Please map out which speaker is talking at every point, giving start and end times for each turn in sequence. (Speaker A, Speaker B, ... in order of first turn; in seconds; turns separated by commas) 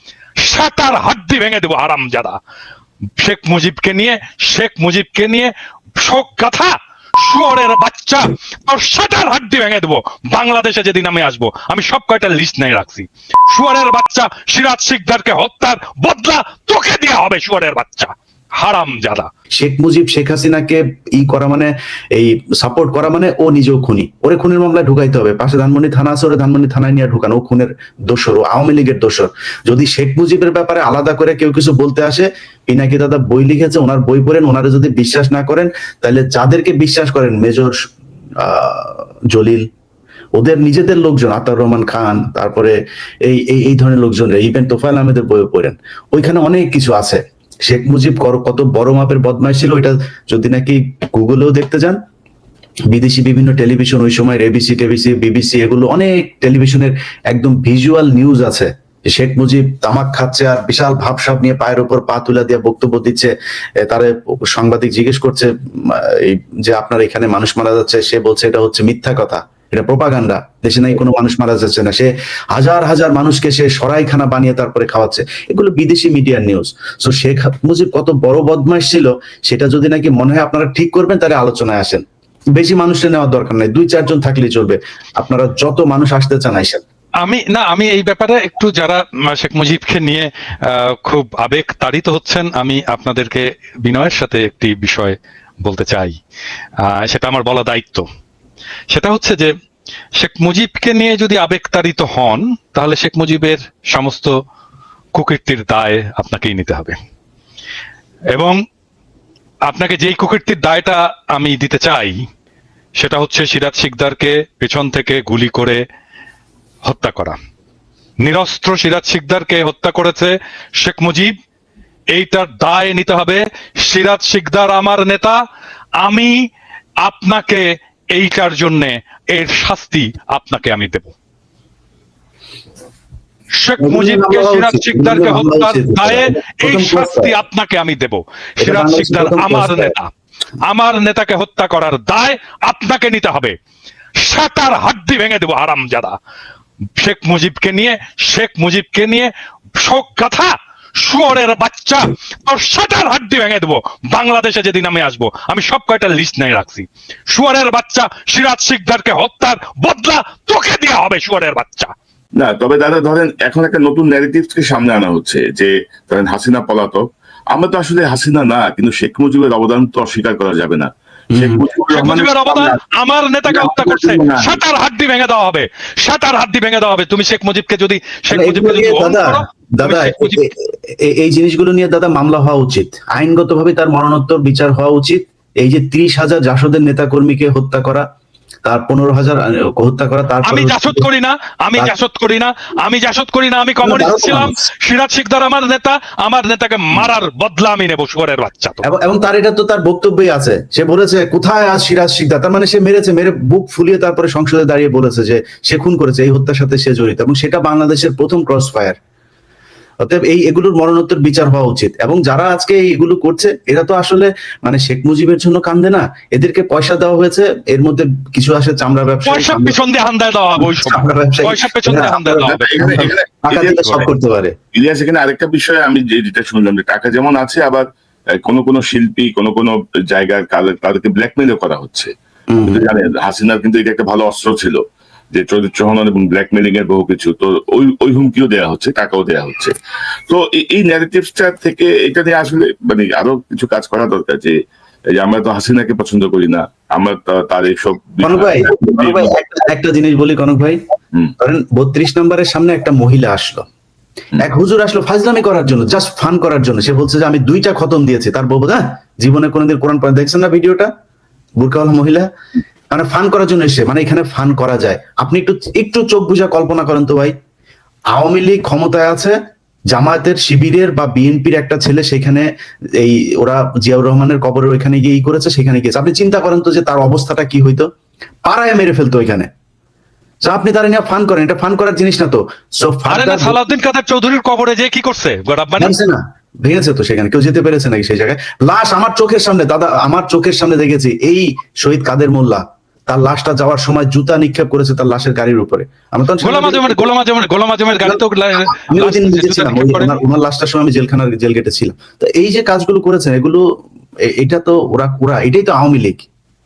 Speaker A: 0.4-2.4, Speaker A: 3.2-19.3, Speaker B: 19.6-37.8, Speaker B: 38.4-39.6, Speaker B: 40.4-52.0, Speaker B: 52.9-63.3, Speaker B: 63.8-82.0, Speaker B: 82.6-86.8, Speaker A: 87.2-96.2, Speaker A: 96.8-98.1, Speaker A: 98.9-99.5, Speaker A: 100.2-104.3, Speaker A: 105.1-107.0, Speaker A: 108.3-108.6, Speaker A: 109.7-112.2, Speaker A: 113.0-115.8, Speaker A: 116.8-117.4, Speaker A: 118.2-121.3, Speaker A: 122.1-125.4, Speaker A: 126.0-126.3, Speaker A: 127.0-131.1, Speaker A: 133.6-140.1, Speaker B: 133.8-137.3, Speaker B: 138.6-139.9, Speaker A: 140.7-143.6, Speaker A: 144.2-146.2, Speaker A: 147.0-161.9, Speaker C: 162.4-172.8, Speaker B: 171.3-171.6, Speaker A: 171.9-180.4, Speaker C: 173.5-174.6, Speaker B: 178.3-188.0, Speaker B: 188.7-191.1, Speaker A: 190.4-198.8, Speaker B: 193.8-194.6, Speaker B: 198.9-209.0, Speaker B: 210.0-219.8, Speaker A: 219.3-224.1, Speaker B: 220.6-224.5, Speaker C: 222.0-223.8, Speaker C: 224.7-227.9, Speaker C: 228.4-232.1, Speaker B: 232.5-232.9, Speaker C: 232.7-234.8, Speaker C: 235.3-239.7, Speaker C: 240.3-244.6, Speaker C: 245.1-249.3, Speaker B: 248.2-250.8, Speaker B: 251.4-253.6, Speaker B: 254.4-260.9, Speaker B: 261.6-262.3, Speaker B: 262.9-267.3, Speaker B: 268.1-269.4, Speaker B: 269.9-277.9, Speaker B: 278.4-279.5, Speaker B: 280.4-283.6, Speaker A: 283.1-286.0, Speaker B: 285.8-297.1, Speaker A: 296.4-300.2, Speaker B: 298.7-303.6, Speaker B: 304.3-306.3